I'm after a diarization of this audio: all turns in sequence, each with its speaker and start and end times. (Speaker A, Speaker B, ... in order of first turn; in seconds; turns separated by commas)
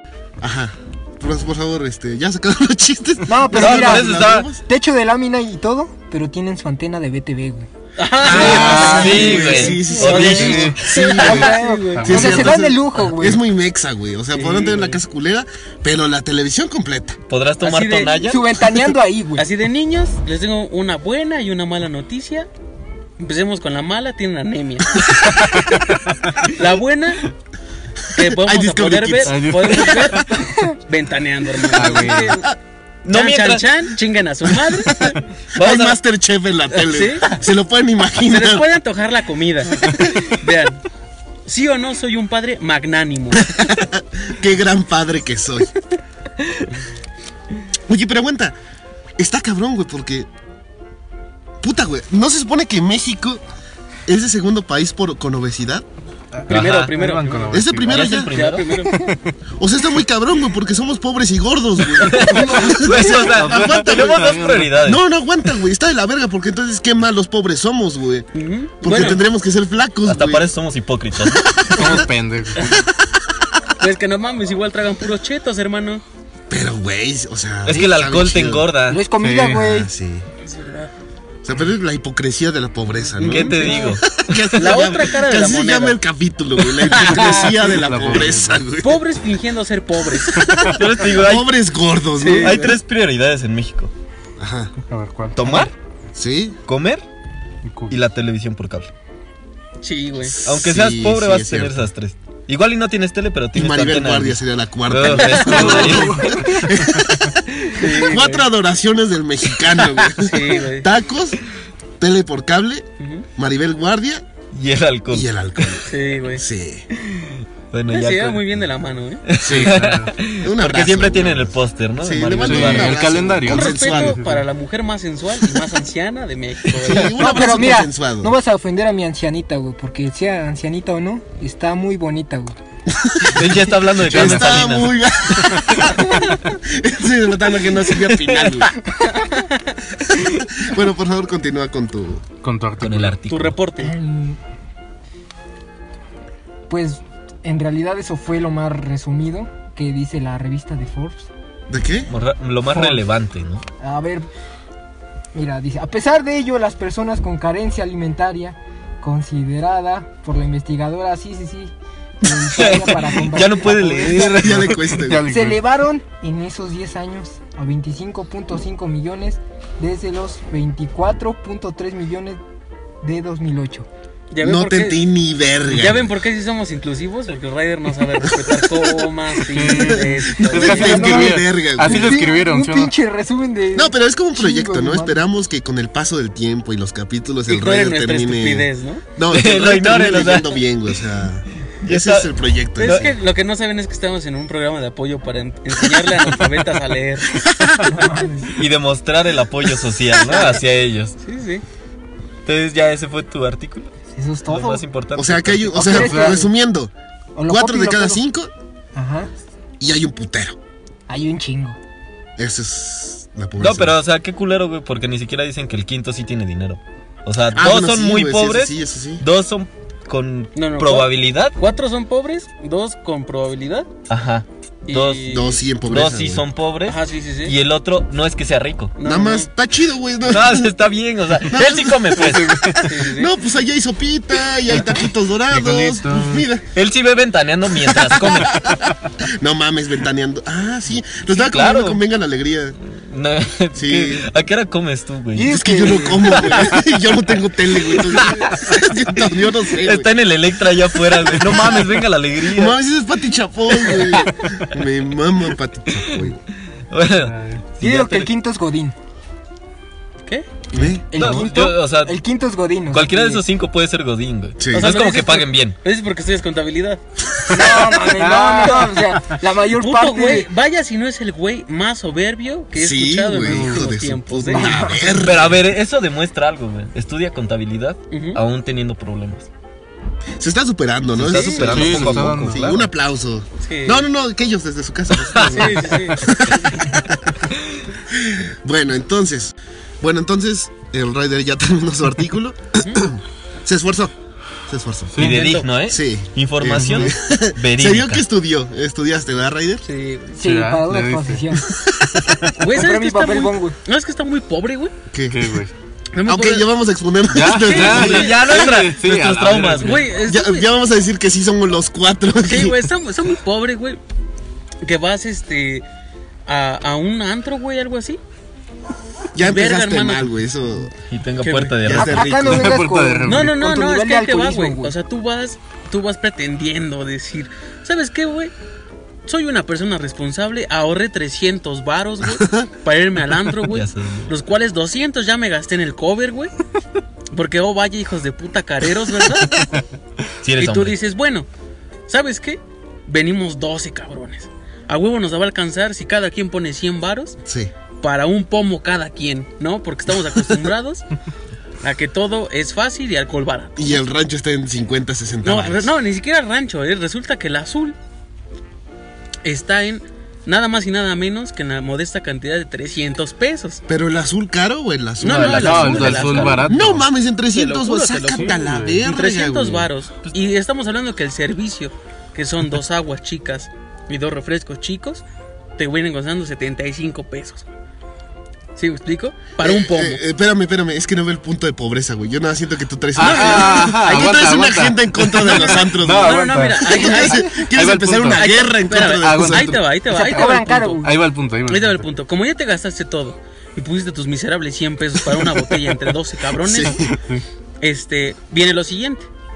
Speaker A: 0.4-4.6, Speaker B: 3.2-7.7, Speaker C: 3.5-4.5, Speaker D: 8.0-12.3, Speaker A: 8.2-11.4, Speaker C: 8.2-11.5, Speaker B: 8.3-10.0, Speaker E: 8.5-9.3, Speaker E: 10.2-12.6, Speaker B: 11.1-13.4, Speaker A: 12.0-17.2, Speaker D: 14.3-15.0, Speaker C: 17.3-18.4, Speaker D: 17.6-18.2, Speaker B: 18.1-19.5, Speaker D: 19.4-22.5, Speaker D: 23.2-25.8, Speaker D: 26.4-27.3, Speaker D: 28.1-32.5, Speaker A: 28.2-30.2, Speaker E: 29.2-30.4, Speaker E: 31.7-32.4, Speaker C: 33.0-33.6, Speaker D: 33.1-35.1, Speaker A: 35.0-38.7, Speaker C: 35.5-36.0, Speaker D: 36.7-37.4, Speaker D: 38.2-40.8, Speaker D: 41.5-43.5, Speaker A: 43.4-45.7, Speaker A: 47.9-48.5, Speaker A: 49.2-50.3, Speaker A: 51.6-53.4, Speaker A: 54.1-55.9, Speaker E: 56.3-58.1, Speaker D: 56.5-57.6, Speaker C: 56.5-56.9, Speaker A: 57.5-58.3, Speaker C: 57.8-58.9, Speaker D: 58.1-59.0, Speaker E: 58.9-59.3, Speaker A: 59.6-68.3, Speaker C: 62.0-65.0, Speaker E: 63.3-64.8, Speaker D: 68.3-69.2, Speaker A: 68.8-70.5, Speaker C: 70.0-72.0, Speaker A: 71.3-72.0, Speaker E: 71.7-72.8, Speaker D: 73.8-76.0, Speaker A: 76.5-78.7, Speaker C: 77.6-79.0, Speaker B: 78.9-79.9, Speaker E: 79.2-79.7, Speaker A: 79.6-80.3, Speaker D: 80.4-80.9, Speaker A: 81.4-89.0, Speaker D: 83.2-84.0, Speaker C: 83.2-85.0, Speaker D: 84.5-86.0, Speaker D: 86.8-87.7, Speaker E: 87.2-88.7, Speaker D: 88.8-90.4, Speaker A: 90.3-92.6, Speaker E: 90.4-90.8, Speaker C: 90.7-91.5, Speaker D: 92.2-92.8, Speaker C: 92.3-93.9, Speaker A: 94.4-94.7, Speaker E: 94.9-95.7, Speaker C: 95.3-95.7, Speaker A: 96.1-96.6, Speaker C: 96.7-97.0, Speaker E: 97.6-98.0, Speaker C: 97.9-98.9, Speaker D: 99.8-100.4, Speaker A: 100.3-101.9, Speaker C: 100.4-106.3, Speaker A: 103.5-111.4, Speaker D: 105.2-106.0, Speaker E: 105.5-106.5, Speaker D: 107.7-108.5, Speaker D: 110.1-110.9, Speaker A: 112.0-112.8, Speaker D: 113.0-113.2, Speaker A: 113.4-114.2, Speaker C: 114.5-115.8, Speaker A: 115.1-116.9, Speaker D: 115.9-116.4, Speaker C: 117.2-118.4, Speaker D: 117.9-119.2, Speaker C: 119.2-123.3, Speaker A: 119.4-119.8, Speaker E: 119.5-120.1, Speaker A: 120.4-124.2, Speaker E: 122.4-124.4, Speaker D: 123.4-127.3, Speaker A: 126.7-128.3, Speaker B: 127.1-132.6, Speaker A: 132.9-138.7, Speaker C: 133.2-135.0, Speaker E: 134.0-134.6, Speaker C: 138.1-138.7, Speaker D: 139.0-139.7, Speaker A: 140.3-142.2, Speaker E: 142.4-143.2, Speaker C: 142.8-143.6, Speaker D: 143.3-143.9, Speaker B: 143.8-144.4, Speaker B: 146.7-151.3, Speaker A: 151.7-152.1, Speaker C: 152.1-153.6, Speaker B: 152.7-153.0, Speaker B: 153.8-154.3, Speaker B: 155.3-164.4, Speaker C: 162.4-165.0, Speaker A: 164.2-165.2, Speaker E: 164.5-165.6, Speaker B: 165.2-172.4, Speaker B: 173.0-173.9, Speaker D: 174.3-175.0, Speaker A: 174.4-176.1, Speaker D: 175.7-181.0, Speaker A: 178.3-179.1, Speaker E: 179.4-182.9, Speaker A: 179.8-182.2, Speaker B: 180.6-185.2, Speaker A: 183.7-193.1, Speaker D: 187.5-189.0, Speaker C: 189.3-190.6, Speaker C: 191.8-193.1, Speaker D: 192.8-197.4, Speaker A: 197.3-198.0, Speaker B: 197.8-198.6, Speaker C: 198.5-201.2, Speaker D: 201.2-201.6, Speaker C: 202.4-203.9, Speaker B: 204.1-204.8, Speaker C: 204.4-206.1, Speaker A: 205.1-206.9, Speaker B: 205.7-206.5, Speaker E: 205.9-206.3, Speaker B: 207.3-208.2, Speaker A: 207.5-208.5, Speaker B: 208.9-209.3, Speaker A: 209.8-210.6, Speaker B: 211.1-211.8, Speaker A: 212.4-214.0, Speaker C: 213.6-221.5, Speaker A: 217.5-219.2, Speaker D: 220.5-223.9, Speaker C: 224.1-228.9, Speaker D: 224.8-225.6, Speaker A: 225.3-226.4, Speaker D: 226.8-227.6, Speaker D: 229.0-229.5, Speaker A: 229.0-230.8, Speaker C: 230.3-232.9, Speaker A: 231.4-236.6, Speaker D: 232.8-233.3, Speaker E: 235.5-236.4, Speaker C: 236.7-238.7, Speaker A: 237.7-242.8, Speaker C: 241.3-242.0, Speaker C: 242.9-245.6, Speaker A: 243.7-244.3, Speaker B: 245.3-246.7, Speaker A: 245.4-250.1, Speaker C: 248.0-248.5, Speaker C: 249.8-252.8, Speaker A: 252.4-256.4, Speaker E: 254.2-254.7, Speaker C: 256.9-258.3, Speaker E: 257.2-257.6, Speaker B: 257.8-258.9, Speaker A: 260.7-261.1, Speaker B: 261.1-263.4, Speaker C: 261.1-262.2, Speaker C: 262.9-265.7, Speaker A: 264.6-264.9, Speaker D: 264.7-267.0, Speaker B: 267.5-270.5, Speaker E: 268.2-269.3, Speaker D: 268.6-268.9, Speaker D: 269.7-274.8, Speaker A: 272.7-275.6, Speaker E: 273.4-273.9, Speaker B: 274.5-275.2, Speaker C: 275.1-279.5, Speaker D: 278.1-278.4, Speaker A: 280.4-287.3, Speaker C: 281.1-282.8, Speaker D: 281.2-281.9, Speaker E: 281.7-282.8, Speaker D: 283.6-284.1, Speaker C: 285.3-285.9, Speaker D: 285.4-286.3, Speaker A: 288.1-294.1, Speaker A: 294.7-295.2, Speaker E: 295.1-295.6, Speaker D: 295.2-295.7, Speaker C: 295.2-298.2, Speaker A: 295.9-299.8, Speaker E: 296.8-297.1, Speaker D: 299.8-300.4, Speaker B: 300.3-301.7, Speaker E: 300.4-301.4, Speaker A: 301.7-302.5, Speaker D: 302.6-304.9, Speaker B: 302.6-303.8, Speaker A: 305.1-305.6, Speaker E: 305.3-305.7, Speaker D: 306.1-306.7, Speaker A: 306.2-308.3, Speaker E: 307.3-310.1, Speaker D: 307.4-308.8, Speaker C: 307.7-310.0, Speaker D: 309.8-310.7, Speaker A: 310.2-312.8, Speaker D: 312.4-314.0, Speaker D: 314.8-315.8, Speaker D: 316.5-318.2, Speaker A: 319.3-320.9, Speaker D: 319.4-320.3, Speaker C: 321.1-322.8, Speaker D: 321.4-321.9, Speaker A: 321.8-322.7, Speaker B: 321.9-324.9, Speaker E: 322.5-323.6, Speaker D: 323.2-328.5, Speaker D: 329.3-336.5, Speaker A: 332.3-332.7, Speaker C: 333.7-334.3, Speaker D: 337.3-339.6, Speaker C: 340.4-341.0, Speaker D: 340.6-341.5, Speaker D: 342.1-347.3, Speaker A: 347.4-347.7, Speaker D: 348.0-351.1, Speaker D: 351.8-354.0, Speaker A: 353.8-355.9, Speaker D: 355.4-357.9, Speaker D: 359.4-363.8, Speaker A: 363.9-369.9, Speaker D: 365.2-366.7, Speaker C: 365.2-366.8, Speaker E: 365.6-367.0, Speaker D: 367.5-375.2, Speaker E: 368.3-369.0, Speaker D: 375.8-377.7, Speaker D: 378.8-380.2, Speaker A: 379.6-389.8, Speaker E: 383.1-389.8, Speaker D: 383.2-384.4, Speaker D: 385.5-387.6, Speaker D: 388.3-391.0, Speaker B: 390.1-391.1, Speaker E: 391.0-392.0, Speaker D: 391.7-397.0, Speaker A: 396.6-397.1, Speaker E: 397.0-397.4, Speaker D: 397.8-399.3